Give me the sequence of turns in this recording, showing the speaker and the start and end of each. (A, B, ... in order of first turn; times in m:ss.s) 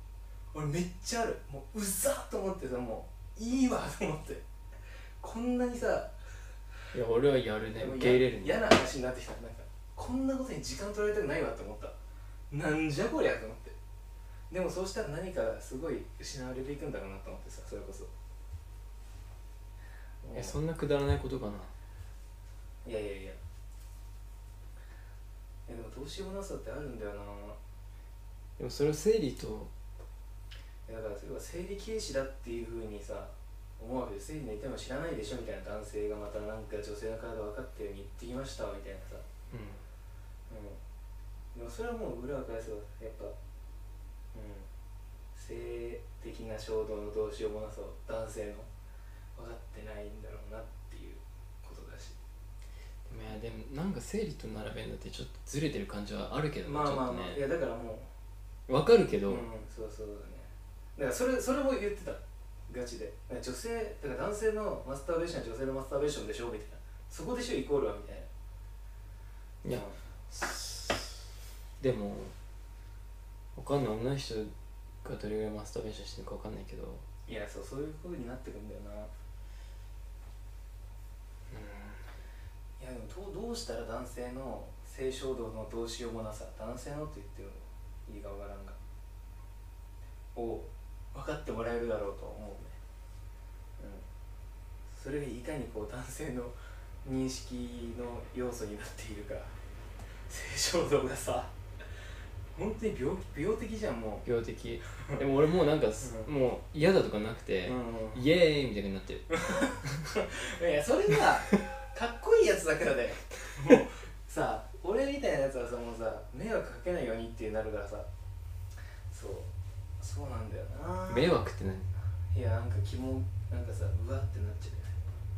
0:00.5-0:04.4 A
0:05.2-0:06.1 A
0:06.9-0:08.6 B
0:07.7-0:11.9 A
0:12.5-0:13.7 A
0:14.5-0:18.1 A
0:20.2-0:20.5 A
0:20.3-0:21.7 B
0:22.8-0:23.4 A
0:25.7-0:27.6 A
0:28.6-0:29.7 B
0:30.9-0:39.2 A
0:39.5-0:39.8 B
0:40.5-0:40.8 A
0:41.5-0:43.3 A
0:44.3-0:44.7 A
0:45.3-0:48.7 A
0:49.4-0:52.2 A
0:53.1-0:57.4 B
0:56.6-0:58.1 A
0:58.7-0:59.4 B
0:59.3-1:08.3 A
1:09.6-1:12.3 B
1:09.7-1:10.0 A
1:13.6-1:14.5 B
1:15.0-1:17.0 B
1:17.2-1:19.1 A
1:21.5-1:22.0 B
1:22.8-1:28.8 A
1:30.3-1:32.8 A
1:33.8-1:34.0 A
1:34.9-1:39.5 A
1:40.3-1:41.5 A
1:42.5-1:44.2 A
1:44.2-1:49.3 B
1:46.0-1:46.3 A
1:47.6-1:48.2 A
1:49.3-1:58.1 A
1:59.1-1:59.5 A
2:00.0-2:01.3 A
2:01.1-2:01.9 B
2:02.3-2:05.0 A